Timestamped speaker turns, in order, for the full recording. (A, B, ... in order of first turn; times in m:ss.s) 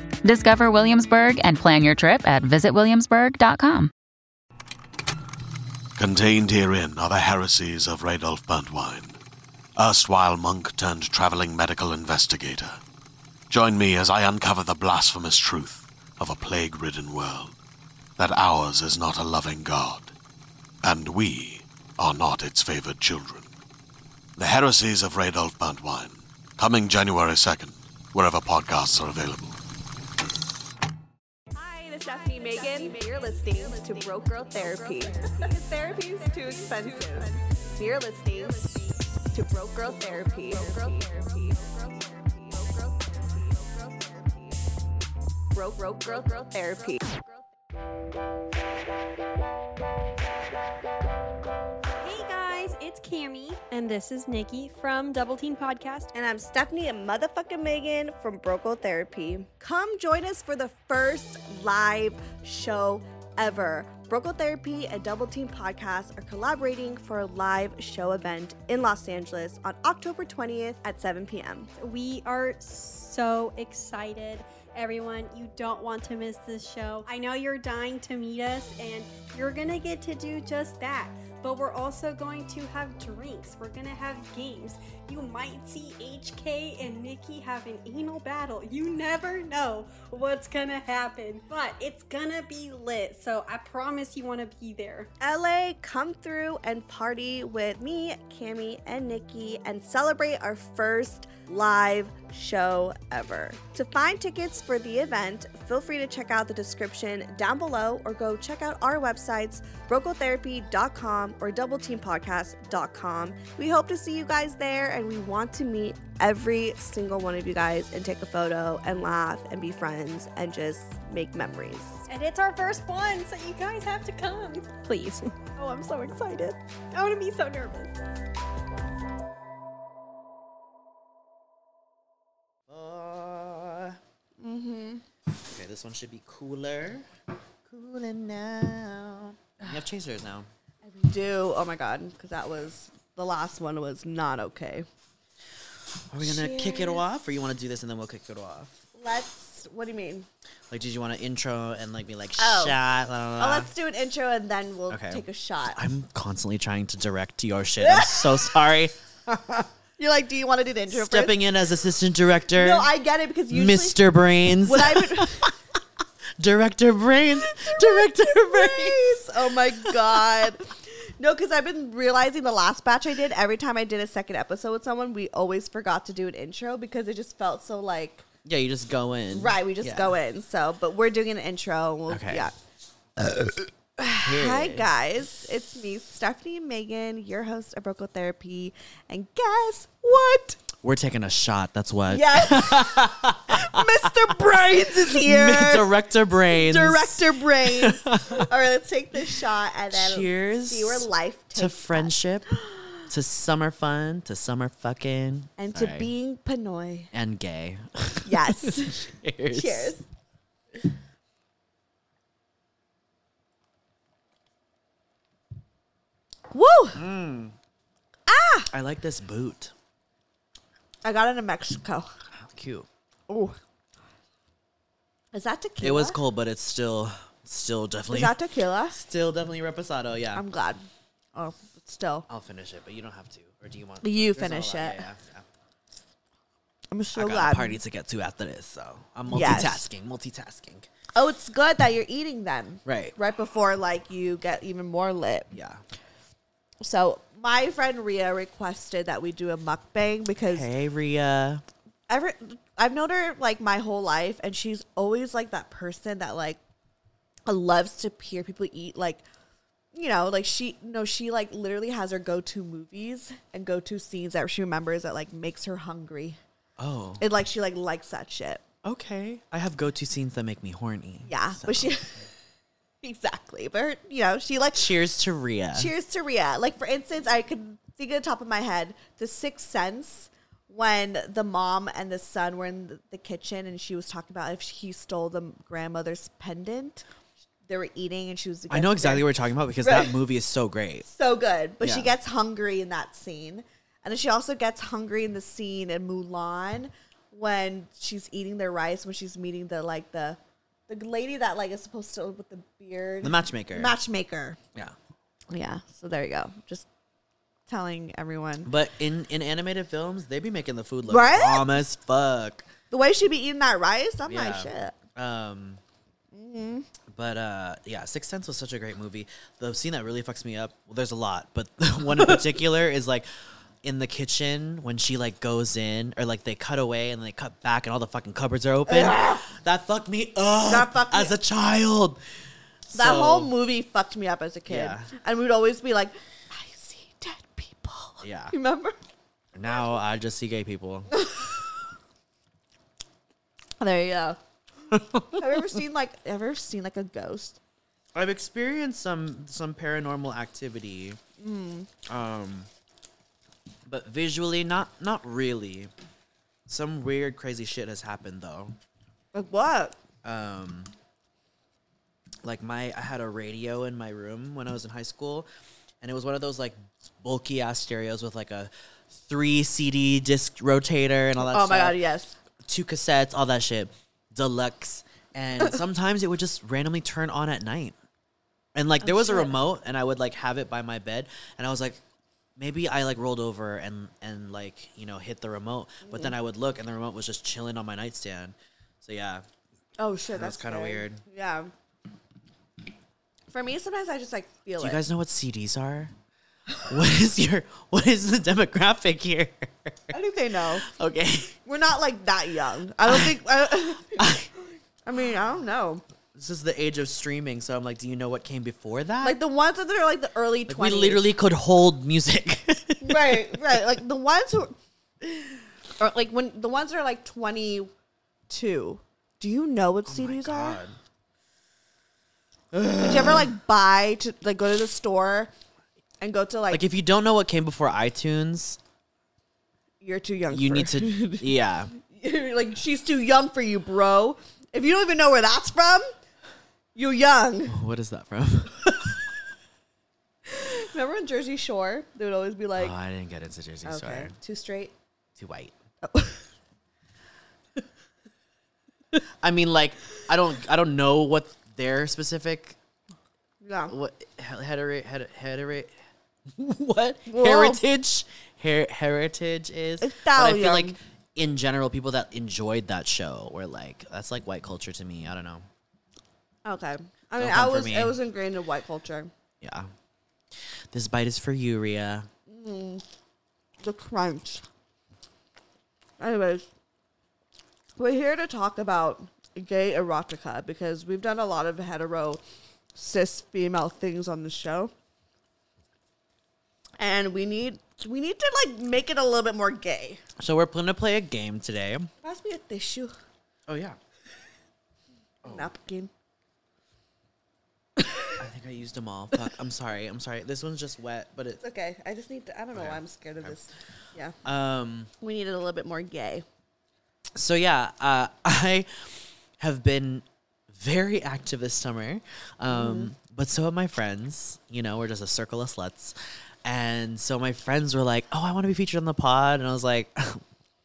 0:00.2-0:03.9 A
0:06.0-0:09.2 B
0:09.8-0:12.8 B
0:13.5-0:17.6 B
0:18.2-0:20.1 B
0:20.8-0:23.5 B
0:24.4-0:29.6 B
0:31.5-0:44.7 C
0:45.5-0:47.2 C
0:52.0-0:56.1 D
0:56.1-1:11.7 C
1:11.8-1:35.1 D
1:35.2-2:02.1 C
2:02.1-2:08.0 D
2:12.7-2:14.0 E
2:14.4-2:15.0 C
2:15.5-2:17.1 E
2:17.7-2:20.5 E
2:20.8-2:24.9 C
2:26.1-2:28.8 E
2:26.2-2:27.0 C
2:28.9-2:30.3 C
2:30.7-2:33.7 E
2:32.4-2:32.8 C
2:33.4-2:35.8 C
2:34.9-2:39.6 E
2:37.8-2:38.3 C
2:40.0-2:41.4 C
2:40.9-2:42.9 E
2:42.5-2:44.0 C
2:43.5-2:45.5 E
2:44.6-2:45.5 C
2:46.4-2:49.2 E
2:47.5-2:58.2 C
2:58.4-3:00.2 E
2:59.3-3:02.6 C
3:02.1-3:02.5 E
3:04.0-3:10.6 C
3:04.2-3:04.9 E
3:10.8-3:18.5 E
3:12.1-3:15.9 C
3:16.5-3:22.9 C
3:19.9-3:22.5 E
3:23.1-3:26.1 E
3:25.6-3:27.1 C
3:27.1-3:29.9 E
3:28.2-3:30.0 C
3:36.5-3:37.0 C
3:37.0-3:37.5 E
3:38.3-3:38.7 C
3:38.7-3:39.7 E
3:41.0-3:42.1 C
3:42.4-3:42.9 E
3:43.3-3:43.6 C
3:45.3-3:46.2 C
3:45.8-3:48.4 E
3:48.1-3:49.0 C
3:48.9-3:50.4 E
3:50.4-3:52.3 C
3:52.3-3:55.4 E
3:54.0-3:55.0 C
3:56.9-3:57.8 C
3:57.2-4:00.9 E
3:59.3-3:59.8 C
4:01.2-4:05.5 C
4:02.8-4:03.2 E
4:05.5-4:05.8 E
4:06.8-4:10.7 C
4:10.5-4:11.6 E
4:12.1-4:16.6 C
4:17.5-4:19.2 C
4:19.9-4:26.4 C
4:26.8-4:27.2 E
4:27.2-4:28.6 C
4:28.8-4:31.9 E
4:31.3-4:32.3 C
4:33.0-4:35.0 C
4:34.7-4:35.9 E
4:35.8-4:47.0 C
4:47.7-4:49.3 C
4:48.7-4:51.1 E
4:49.8-4:50.2 C
4:51.1-5:04.6 C
4:51.8-4:52.1 E
5:03.2-5:04.0 E
5:05.5-5:06.9 C
5:07.7-5:08.7 C
5:08.6-5:12.7 E
5:11.1-5:11.7 C
5:12.9-5:15.0 C
5:14.3-5:15.8 E
5:16.3-5:16.9 C
5:17.1-5:23.3 E
5:23.8-5:32.2 E
5:28.9-5:29.5 C
5:30.6-5:31.4 C
5:32.9-5:33.5 E
5:32.9-5:39.0 C
5:34.7-5:35.1 E
5:38.2-5:38.5 E
5:39.5-5:41.1 E
5:41.2-5:41.5 C
5:43.8-5:44.4 C
5:45.3-5:47.6 C
5:48.1-5:51.2 E
5:51.4-5:51.9 C
5:52.1-5:52.7 E
5:53.9-5:55.9 E
5:56.7-5:58.8 E
5:59.3-6:00.0 C
6:00.2-6:00.9 E
6:02.4-6:05.5 E
6:06.0-6:12.0 E
6:11.4-6:12.4 C
6:12.6-6:18.0 E
6:18.7-6:22.0 E
6:19.0-6:19.6 C
6:22.6-6:29.4 E
6:26.0-6:26.3 C
6:30.0-6:31.7 C
6:30.3-6:31.2 E
6:33.5-6:35.0 C
6:34.8-6:36.1 E
6:36.9-6:40.2 E
6:40.1-6:40.9 C
6:40.8-6:41.6 E
6:41.7-6:44.4 C
6:43.1-6:43.4 E
6:44.1-6:44.5 E
6:45.0-6:46.0 C
6:46.4-6:49.4 E
6:49.2-6:51.3 C
6:50.7-6:53.6 E
6:53.0-6:54.8 C
6:56.0-6:57.9 C
6:58.5-7:00.8 C
7:00.1-7:01.0 E
7:02.7-7:03.5 E
7:03.0-7:05.5 C
7:06.2-7:06.8 C
7:06.7-7:08.8 E
7:10.0-7:16.1 C
7:10.5-7:11.9 E
7:17.0-7:17.8 C
7:17.7-7:19.2 E
7:20.5-7:23.0 C
7:22.8-7:24.4 E
7:23.8-7:24.9 C
7:25.4-7:25.7 E
7:26.0-7:26.4 C
7:29.4-7:32.8 E
7:33.6-7:33.9 C
7:33.9-7:35.9 E
7:36.5-7:45.7 E
7:37.3-7:37.8 C
7:40.0-7:41.0 C
7:46.6-7:49.3 C
7:47.4-7:48.2 E
7:49.6-7:49.9 E
7:50.9-7:52.3 E
7:52.5-7:53.0 C
7:53.8-7:54.6 C
7:56.2-7:56.7 C
7:58.0-8:02.4 C
8:03.0-8:04.9 C
8:07.0-8:10.2 C
8:10.4-8:12.1 E
8:12.2-8:13.2 C
8:13.7-8:14.0 E
8:15.4-8:15.7 E
8:15.5-8:16.1 C
8:18.4-8:21.6 E
8:21.6-8:24.4 C
8:22.7-8:23.6 E
8:24.4-8:25.1 E
8:25.2-8:26.4 C
8:27.4-8:40.4 E
8:32.7-8:33.1 C